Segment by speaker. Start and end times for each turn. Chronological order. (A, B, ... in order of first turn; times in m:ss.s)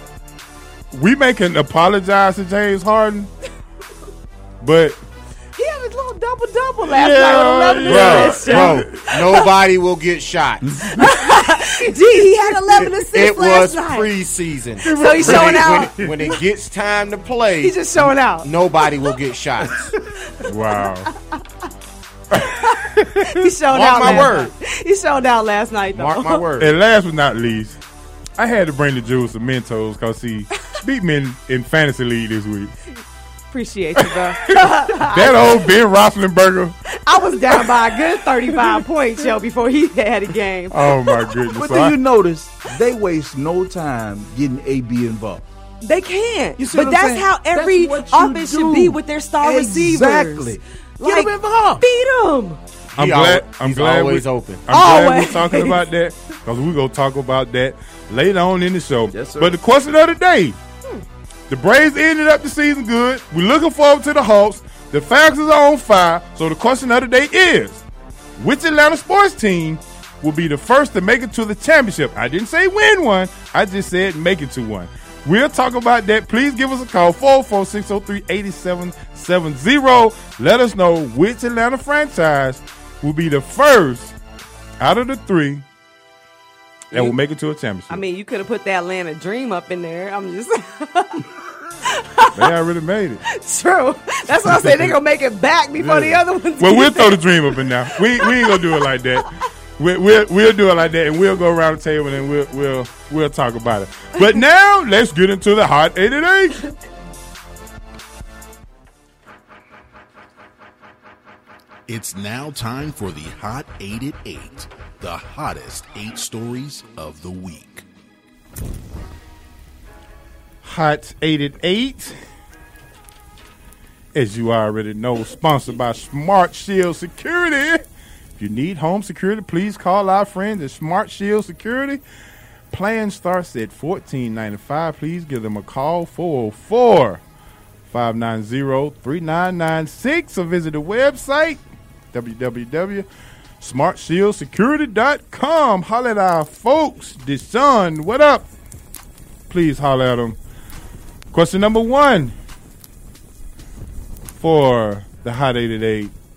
0:00.9-0:03.3 A
0:04.6-0:05.0 A
0:05.6-0:09.5 B
0:06.9-0:09.1 A
0:07.8-0:10.6 C
0:11.0-0:14.1 B
0:12.8-0:17.8 C
0:14.8-0:15.9 B
0:14.9-0:15.8 A
0:17.6-0:18.5 B
0:18.4-0:19.9 C
0:20.5-0:21.1 A
0:20.8-0:21.1 B
0:22.3-0:22.6 A
0:22.6-0:26.4 B
0:23.7-0:24.5 C
0:25.9-0:26.8 C
0:26.6-0:27.8 A
0:28.4-0:32.7 A
0:33.5-0:35.5 B
0:35.0-0:36.8 A
0:37.0-0:41.2 B
0:40.7-0:42.0 A
0:41.5-0:45.5 D
0:45.8-0:52.6 B
0:46.6-0:51.8 D
0:53.0-0:54.6 C
0:53.0-1:00.6 A
0:54.7-0:55.8 B
0:59.1-0:59.6 D
1:01.5-1:07.8 A
1:08.4-1:24.2 A
1:24.8-1:25.6 A
1:26.9-1:28.0 A
1:27.9-1:31.2 B
1:31.9-1:32.5 B
1:32.4-1:33.2 A
1:33.3-1:38.9 B
1:34.3-1:35.0 A
1:35.8-1:39.3 A
1:39.8-1:46.6 A
1:51.9-1:57.8 E
2:00.6-2:02.2 A
2:04.2-2:07.8 A
2:08.4-2:12.0 A
2:12.7-2:17.2 A
2:17.9-2:23.1 A
2:23.6-2:28.5 A
2:29.5-2:30.4 A
2:31.3-2:32.4 A
2:34.4-2:36.1 A